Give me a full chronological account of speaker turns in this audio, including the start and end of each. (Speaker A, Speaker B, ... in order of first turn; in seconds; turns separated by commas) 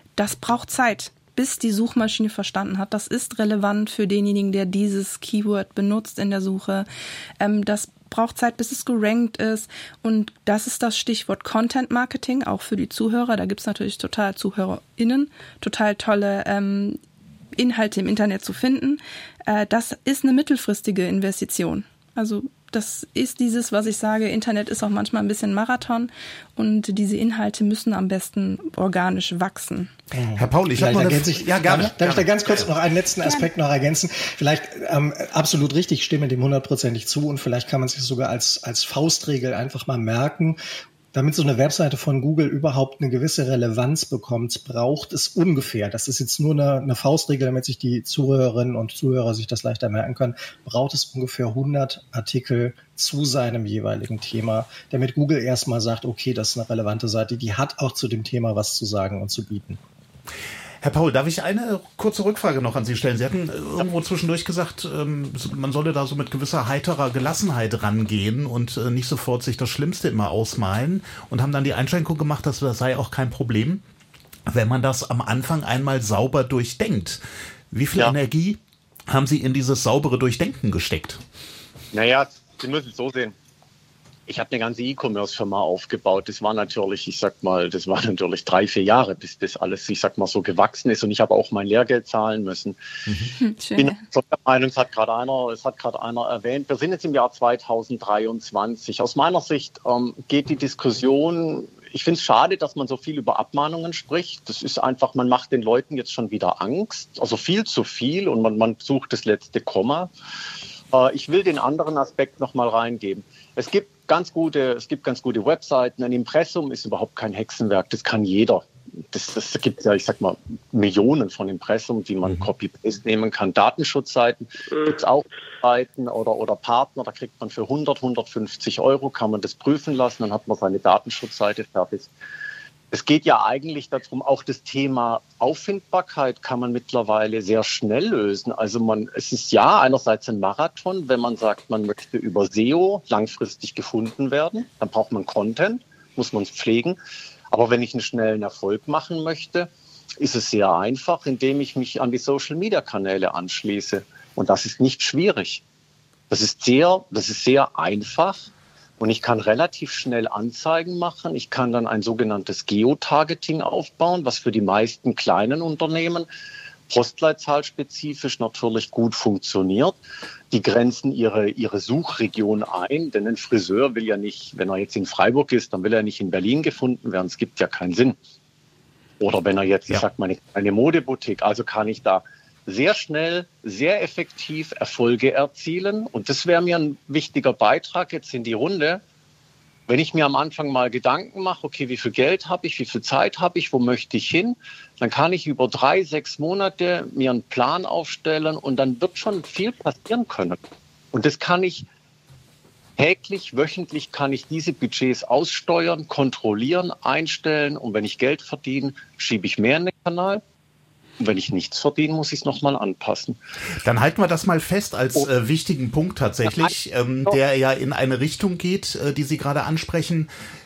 Speaker A: 0.2-6.9, Speaker A: 7.4-17.0, Speaker A: 17.6-29.9, Speaker B: 30.1-40.6, Speaker C: 30.4-32.7, Speaker A: 33.2-33.5, Speaker B: 41.1-59.8, Speaker C: 60.8-73.8, Speaker C: 74.5-81.2, Speaker D: 81.9-83.4, Speaker D: 84.3-92.8, Speaker A: 93.4-94.0, Speaker D: 93.8-110.1, Speaker D: 110.9-132.1, Speaker D: 132.9-147.0, Speaker D: 147.5-155.6, Speaker D: 156.3-166.3, Speaker D: 166.9-170.0, Speaker D: 170.5-178.2, Speaker D: 179.2-189.0, Speaker D: 189.9-200.6, Speaker D: 201.1-201.9, Speaker D: 203.0-210.4, Speaker D: 211.2-213.4, Speaker C: 213.8-220.3, Speaker D: 216.4-216.7